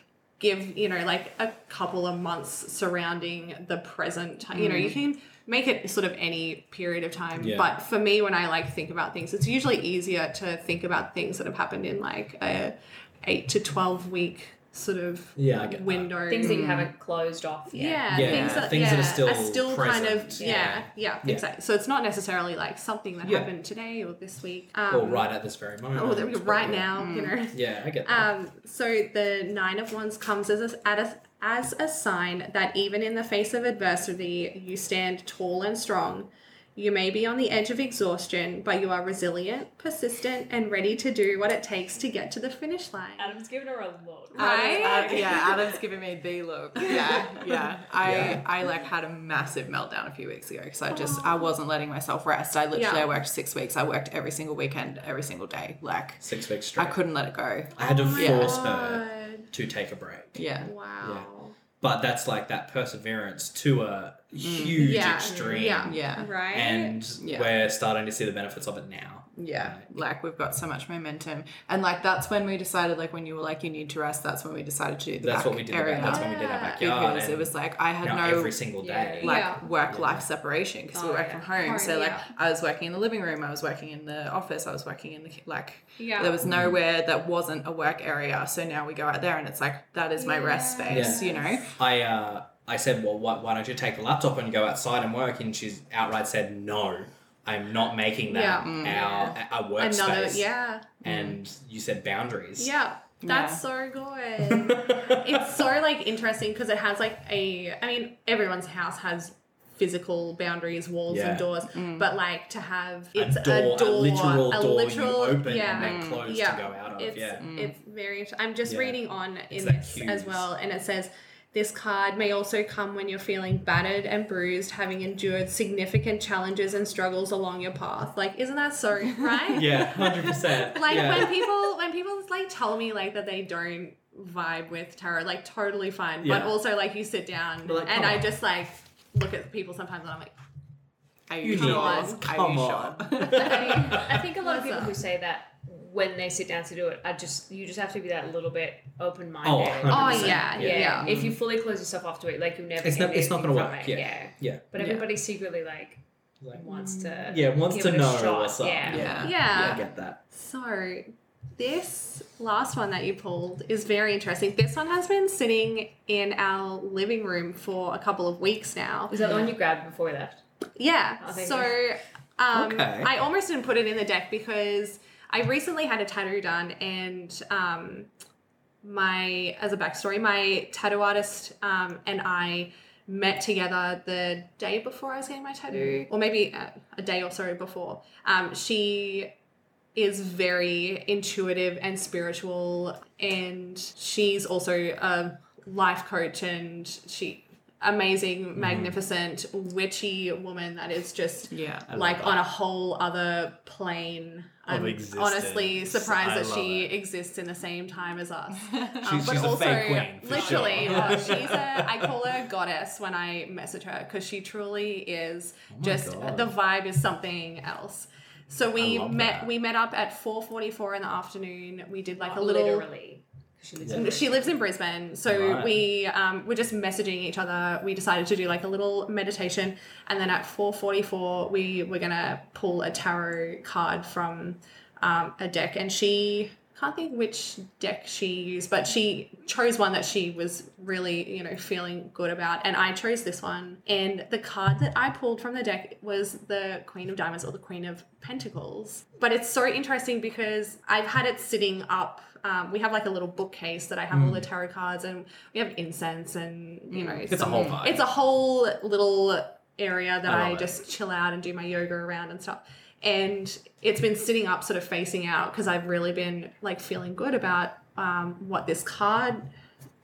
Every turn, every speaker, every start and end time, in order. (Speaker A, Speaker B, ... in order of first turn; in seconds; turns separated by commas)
Speaker A: 0.4-16.6, Speaker B: 4.5-5.0, Speaker C: 7.3-7.7, Speaker C: 15.3-16.1, Speaker D: 16.3-18.4, Speaker B: 16.4-16.9, Speaker A: 17.7-25.3, Speaker C: 18.1-21.4, Speaker B: 18.2-18.8, Speaker D: 20.4-20.8, Speaker C: 23.2-23.5, Speaker C: 24.9-26.9, Speaker A: 25.9-43.3, Speaker B: 26.9-27.4, Speaker C: 27.5-28.3, Speaker D: 43.2-45.8, Speaker A: 44.3-45.6, Speaker B: 44.4-58.6, Speaker A: 46.9-47.4, Speaker C: 48.0-48.4, Speaker A: 50.9-51.5, Speaker A: 52.7-53.1, Speaker C: 56.2-57.0, Speaker C: 57.8-60.4, Speaker A: 57.8-59.5, Speaker B: 60.4-60.7, Speaker A: 60.6-61.5, Speaker C: 61.0-61.3, Speaker C: 61.8-69.9, Speaker B: 64.4-65.0, Speaker A: 64.6-67.0, Speaker D: 65.2-65.6, Speaker B: 65.8-66.3, Speaker B: 67.2-67.5, Speaker B: 69.3-78.7, Speaker C: 75.2-80.2, Speaker A: 76.0-76.8, Speaker D: 78.8-79.3, Speaker B: 79.2-91.8, Speaker A: 79.2-79.7, Speaker D: 80.9-81.5, Speaker A: 81.6-82.3, Speaker A: 86.0-86.4, Speaker C: 86.4-86.8, Speaker A: 90.2-91.5, Speaker C: 90.9-100.5, Speaker A: 98.3-99.0, Speaker B: 98.6-99.2, Speaker D: 98.8-99.4, Speaker A: 99.8-101.0, Speaker C: 101.0-102.7, Speaker B: 101.0-101.3, Speaker A: 102.6-140.3, Speaker B: 103.2-103.6, Speaker C: 104.5-105.4, Speaker C: 111.1-111.5, Speaker B: 111.7-112.1, Speaker C: 113.1-117.5, Speaker B: 115.7-116.3, Speaker B: 117.4-117.7, Speaker C: 118.6-119.0, Speaker C: 119.5-120.5, Speaker C: 129.5-131.5, Speaker C: 136.2-136.5, Speaker C: 137.6-138.3, Speaker B: 141.3-143.6, Speaker C: 141.4-144.1, Speaker A: 141.4-142.2, Speaker A: 143.3-145.0, Speaker D: 143.6-159.1, Speaker C: 149.4-151.3, Speaker A: 149.9-151.1, Speaker B: 150.7-151.3, Speaker C: 152.8-154.6, Speaker B: 154.8-155.1, Speaker C: 156.4-156.7, Speaker B: 156.7-157.2, Speaker C: 157.2-160.2, Speaker B: 158.9-159.7, Speaker A: 159.2-169.2, Speaker D: 169.1-170.4, Speaker B: 169.2-169.5, Speaker A: 170.8-178.1, Speaker D: 171.2-171.8, Speaker C: 172.5-173.1, Speaker A: 178.8-189.3, Speaker A: 189.9-222.8, Speaker C: 198.6-198.9, Speaker B: 201.5-201.9, Speaker C: 201.9-202.4, Speaker C: 204.7-206.9, Speaker B: 208.7-209.0, Speaker C: 209.0-212.1, Speaker D: 210.2-211.6, Speaker C: 215.7-216.5, Speaker C: 218.8-219.5, Speaker D: 222.2-224.6, Speaker C: 223.8-224.1, Speaker A: 223.9-269.5, Speaker C: 225.3-225.7, Speaker C: 254.1-254.5, Speaker B: 256.9-257.8, Speaker C: 257.3-258.0, Speaker C: 260.2-260.8